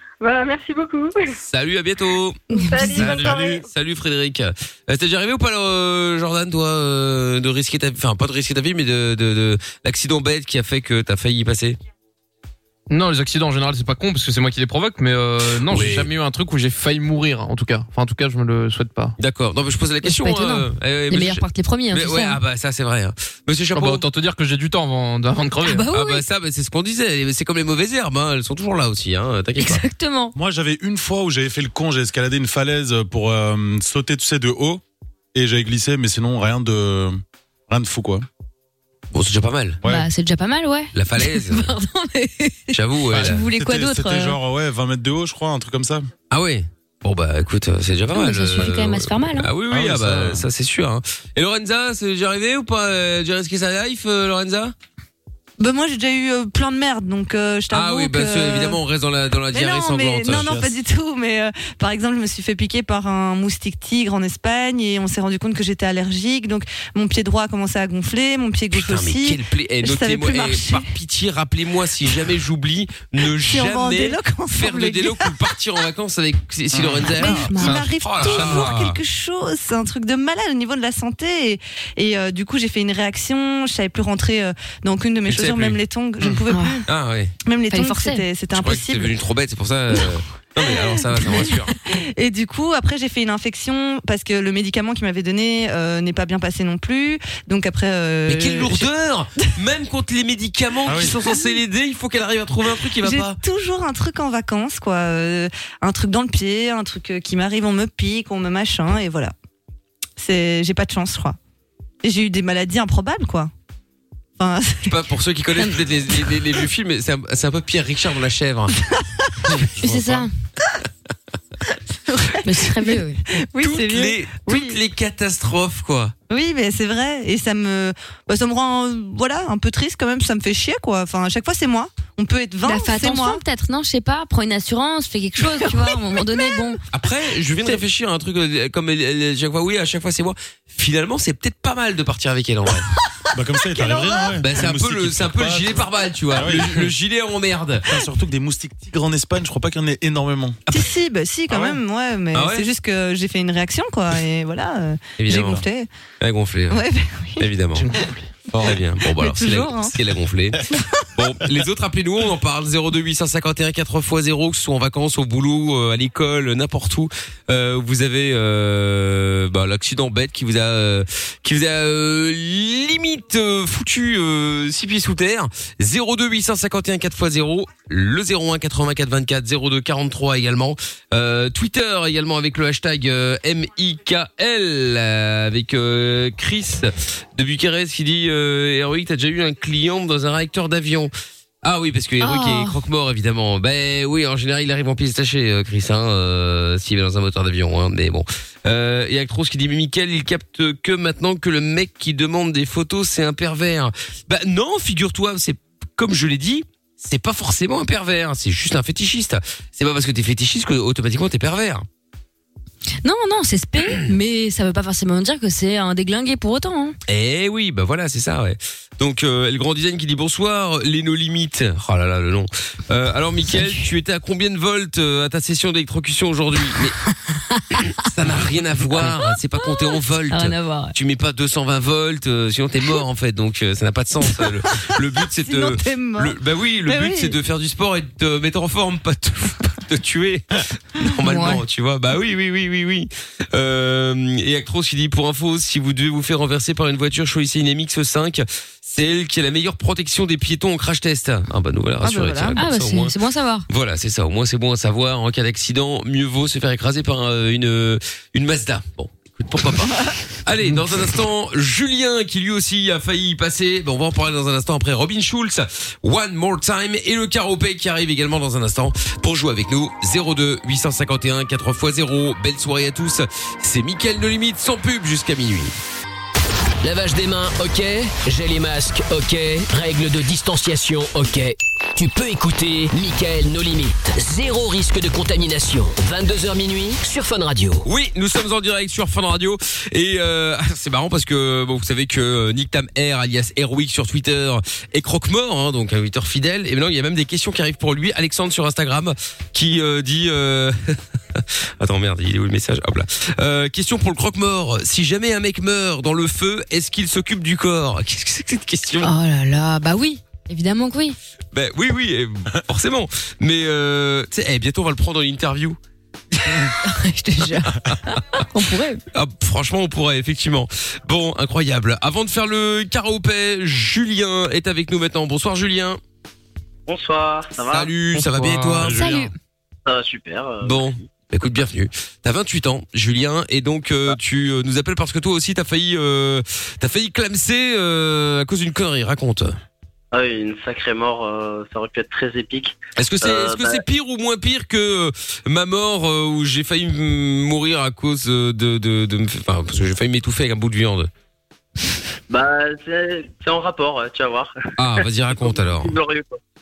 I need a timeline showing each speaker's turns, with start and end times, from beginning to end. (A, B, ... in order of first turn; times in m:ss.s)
0:00.2-0:01.4 A
0:01.4-0:11.8 B
0:02.5-0:03.7 A
0:02.6-0:03.2 C
0:12.9-0:19.1 D
0:15.6-0:16.1 B
0:19.2-0:24.0 B
0:20.0-0:22.4 E
0:23.7-0:25.9 D
0:25.6-0:26.2 E
0:25.9-0:29.8 B
0:29.6-0:30.4 E
0:30.4-0:34.8 F
0:35.3-0:37.2 F
0:37.7-0:38.2 F
0:39.1-0:39.8 B
0:39.8-0:40.1 F
0:39.9-0:44.4 E
0:40.9-0:41.7 B
0:42.7-0:43.4 B
0:43.1-0:46.1 F
0:46.3-0:54.7 B
0:48.1-0:49.5 E
0:49.7-0:50.5 F
0:55.6-0:58.8 C
0:57.7-1:00.6 B
0:59.5-1:10.9 C
1:00.3-1:00.7 F
1:08.7-1:19.0 B
1:13.4-1:15.5 C
1:16.7-1:17.3 F
1:17.2-1:26.9 C
1:17.5-1:18.8 D
1:25.3-1:25.8 B
1:26.5-1:26.8 E
1:26.9-1:27.3 B
1:27.4-1:29.1 C
1:27.7-1:28.2 E
1:28.5-1:31.8 B
1:30.6-1:38.9 C
1:38.3-1:43.4 B
1:40.9-1:41.2 F
1:43.0-1:49.3 C
1:50.2-1:51.4 C
1:52.0-1:53.5 C
1:54.4-1:55.0 C
1:54.9-1:58.8 B
1:55.8-1:56.6 C
1:58.7-1:59.3 C
1:59.6-2:00.3 B
1:59.8-2:00.3 E
2:02.1-2:04.8 C
2:02.4-2:03.2 E
2:03.6-2:06.1 B
2:06.3-2:13.4 C
2:12.6-2:16.8 E
2:15.5-2:16.7 C
2:16.9-2:22.9 B
2:23.3-2:26.9 F
2:24.4-2:27.9 B
2:27.9-2:30.6 F
2:30.7-2:35.9 C
2:32.3-2:32.6 B
2:35.2-2:35.6 B
2:36.2-2:36.8 B
2:36.7-2:37.4 C
2:37.4-2:37.9 B
2:37.8-2:38.1 D
2:38.5-2:38.8 F
2:38.6-3:11.1 B
2:39.1-2:40.0 C
3:11.6-3:31.8 B
3:12.2-3:12.8 E
3:33.0-3:37.0 E
3:37.1-3:47.0 B
3:43.5-3:43.8 E
3:47.5-3:47.8 E
3:48.0-4:13.1 B
3:49.7-3:50.9 E
3:55.4-3:57.4 C
4:01.2-4:01.6 E
4:12.0-4:12.6 C
4:12.6-4:13.6 E
4:13.7-4:35.8 B
4:36.8-4:47.8 G
4:47.8-5:09.1 B
5:09.0-5:11.2 E
5:11.5-5:15.8 B
5:16.4-5:16.7 B
5:16.8-5:19.0 E
5:19.1-5:26.0 B
5:26.9-5:27.9 H
5:27.7-5:29.0 B
5:28.1-5:29.3 D
5:28.9-5:29.3 E
5:29.8-5:31.0 H
5:30.6-5:39.6 B
5:40.1-5:43.8 H
5:43.0-5:51.1 B
5:52.3-5:56.4 H
5:54.8-5:55.9 B